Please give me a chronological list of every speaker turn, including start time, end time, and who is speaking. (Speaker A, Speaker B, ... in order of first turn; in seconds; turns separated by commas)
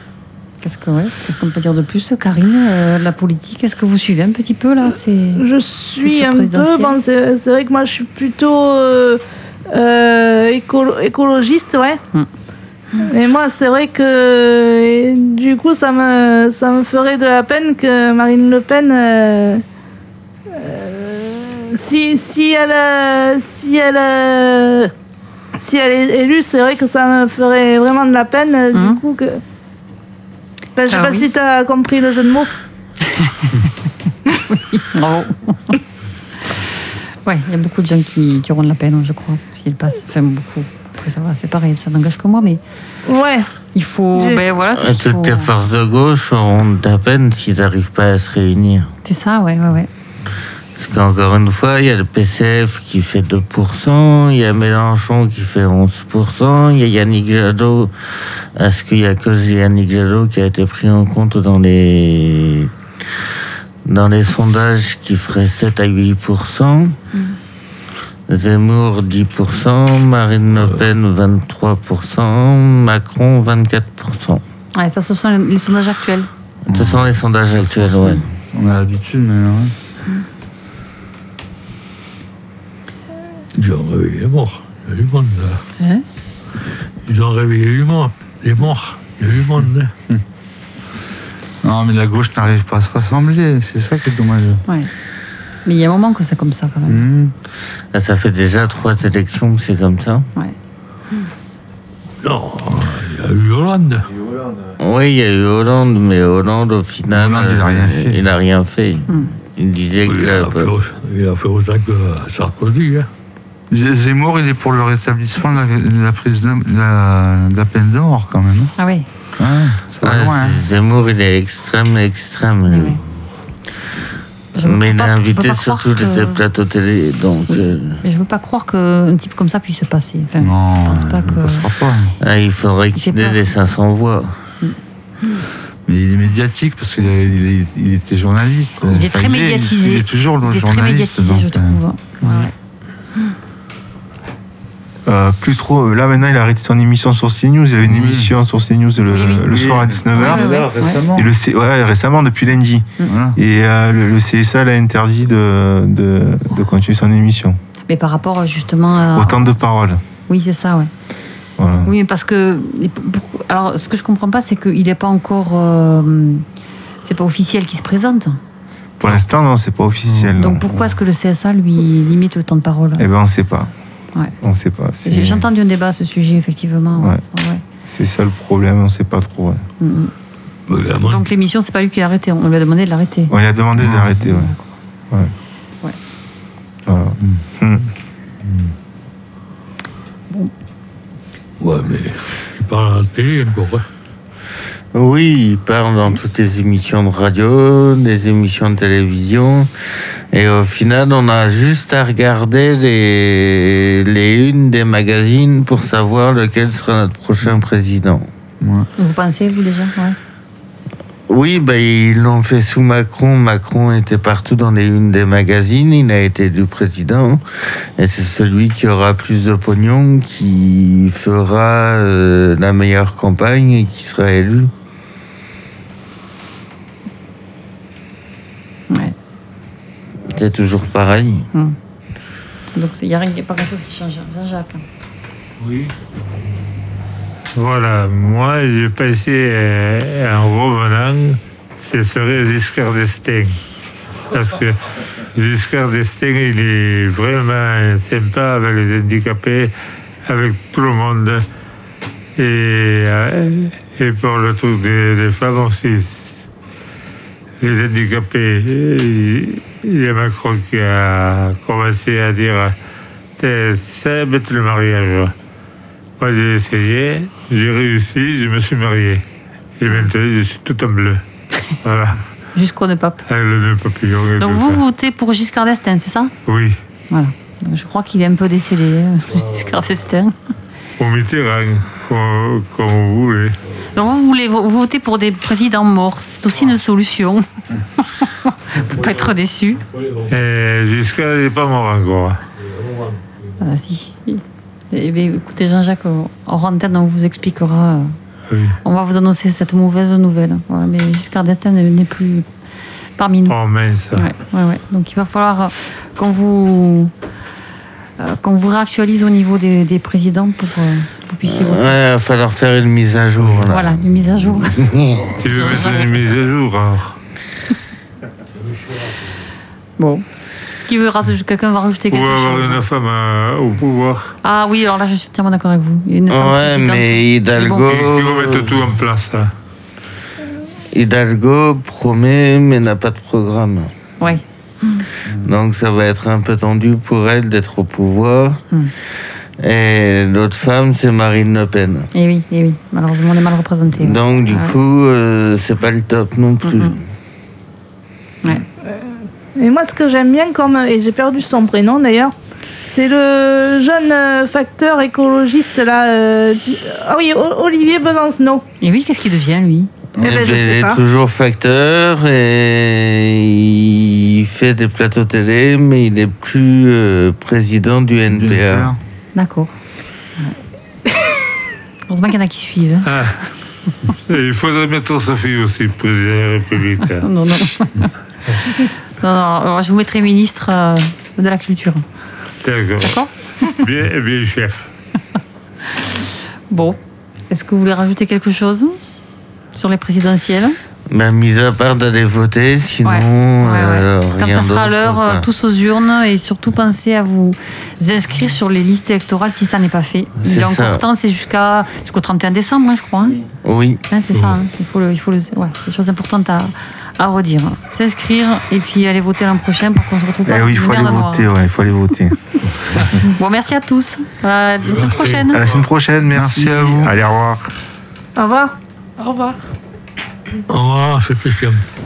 Speaker A: 0.6-5.4, Speaker B: 5.3-12.0, Speaker A: 6.0-7.0, Speaker B: 13.0-19.6, Speaker B: 20.5-24.9, Speaker B: 25.6-29.4, Speaker A: 28.7-29.0, Speaker B: 30.8-32.5, Speaker A: 30.9-31.3, Speaker A: 33.0-33.7, Speaker A: 34.4-35.8, Speaker A: 37.2-42.6, Speaker B: 43.0-43.5, Speaker A: 43.7-45.5, Speaker B: 44.1-44.5, Speaker C: 44.7-48.9, Speaker A: 49.0-49.9, Speaker C: 50.8-62.7, Speaker C: 63.8-67.0, Speaker C: 68.3-74.4, Speaker A: 74.7-76.3, Speaker C: 76.7-78.3, Speaker D: 76.7-77.1, Speaker D: 78.0-79.7, Speaker E: 83.5-85.6, Speaker E: 87.0-89.9, Speaker D: 91.6-94.6, Speaker A: 95.6-97.0, Speaker D: 96.9-97.3, Speaker C: 97.9-100.3, Speaker E: 102.2-104.3, Speaker C: 104.8-110.7, Speaker D: 107.1-108.2, Speaker A: 109.1-109.3, Speaker E: 110.0-113.1, Speaker D: 113.7-118.7, Speaker A: 118.8-119.1, Speaker D: 119.3-120.6, Speaker C: 120.0-123.0, Speaker A: 122.7-123.0, Speaker A: 124.5-126.4, Speaker C: 124.6-128.0, Speaker A: 127.5-131.7, Speaker D: 130.4-132.1, Speaker C: 132.2-134.4, Speaker A: 132.9-133.3, Speaker D: 135.8-142.5, Speaker A: 138.8-142.5, Speaker F: 145.1-150.6, Speaker D: 147.8-148.3, Speaker A: 149.1-149.5, Speaker D: 149.4-151.3, Speaker A: 150.1-151.0, Speaker F: 151.1-157.6, Speaker D: 153.1-153.4, Speaker A: 157.9-159.6, Speaker F: 159.1-160.0, Speaker A: 160.3-160.9, Speaker F: 161.6-161.9, Speaker A: 161.8-166.4, Speaker A: 167.0-168.4, Speaker F: 169.0-170.7, Speaker A: 170.4-173.1, Speaker F: 173.0-173.7, Speaker F: 174.4-175.5, Speaker A: 175.0-177.6, Speaker F: 177.8-179.6, Speaker A: 179.8-180.1, Speaker E: 180.7-181.3, Speaker A: 181.0-183.3, Speaker F: 183.3-184.5, Speaker D: 183.8-184.2, Speaker A: 184.3-184.6, Speaker F: 186.8-187.9, Speaker E: 191.6-193.8, Speaker C: 194.9-199.7, Speaker C: 200.3-208.3, Speaker D: 208.6-208.9, Speaker A: 209.0-210.2, Speaker C: 211.3-224.7, Speaker C: 230.2-231.5, Speaker A: 232.7-234.8, Speaker E: 235.6-235.9, Speaker G: 237.5-243.6, Speaker G: 244.3-249.7, Speaker G: 250.2-251.4, Speaker G: 252.4-256.4, Speaker G: 257.6-262.8, Speaker G: 263.4-265.3, Speaker G: 266.2-269.2, Speaker G: 269.8-271.2, Speaker G: 271.8-272.3, Speaker A: 272.5-273.2, Speaker G: 273.3-274.8, Speaker A: 274.4-276.3, Speaker G: 276.4-276.8, Speaker A: 277.1-280.4, Speaker E: 279.3-279.9, Speaker G: 281.0-283.6, Speaker A: 283.9-287.4, Speaker A: 288.0-289.8, Speaker E: 288.7-290.4, Speaker G: 290.3-292.4, Speaker E: 292.6-293.6, Speaker A: 293.6-298.1, Speaker G: 298.5-298.8, Speaker A: 298.8-302.5, Speaker A: 303.2-303.5, Speaker G: 303.5-304.3, Speaker A: 304.1-307.1, Speaker A: 308.2-312.0, Speaker C: 311.4-314.0, Speaker A: 313.7-316.2, Speaker C: 314.8-315.3, Speaker G: 315.4-317.2, Speaker E: 318.5-319.4, Speaker A: 320.0-320.2, Speaker A: 320.9-322.8, Speaker G: 322.1-324.3, Speaker A: 324.4-327.8, Speaker C: 326.3-328.7, Speaker G: 327.8-329.5, Speaker C: 330.9-333.9, Speaker A: 334.2-335.0, Speaker C: 335.4-338.6, Speaker C: 339.6-342.1, Speaker A: 342.1-344.8, Speaker C: 344.0-347.0, Speaker A: 346.6-346.9, Speaker B: 348.8-352.3, Speaker B: 352.9-358.6, Speaker A: 358.8-359.9, Speaker C: 360.2-368.9, Speaker B: 360.2-361.0, Speaker D: 368.3-369.0, Speaker A: 369.3-369.7, Speaker A: 372.1-373.3, Speaker G: 373.1-373.3, Speaker G: 374.2-377.3, Speaker A: 377.2-382.0, Speaker G: 382.6-384.9, Speaker A: 383.0-383.3, Speaker A: 385.9-387.0, Speaker A: 387.5-389.0, Speaker A: 389.7-390.8, Speaker C: 391.1-395.4, Speaker A: 393.0-403.4, Speaker C: 400.4-401.0, Speaker C: 403.6-404.0, Speaker A: 404.1-411.5, Speaker E: 404.3-404.6, Speaker F: 410.5-413.2, Speaker A: 413.2-415.6, Speaker E: 414.9-415.8, Speaker F: 415.5-417.7, Speaker D: 416.3-417.1, Speaker B: 418.4-419.6, Speaker E: 420.7-421.8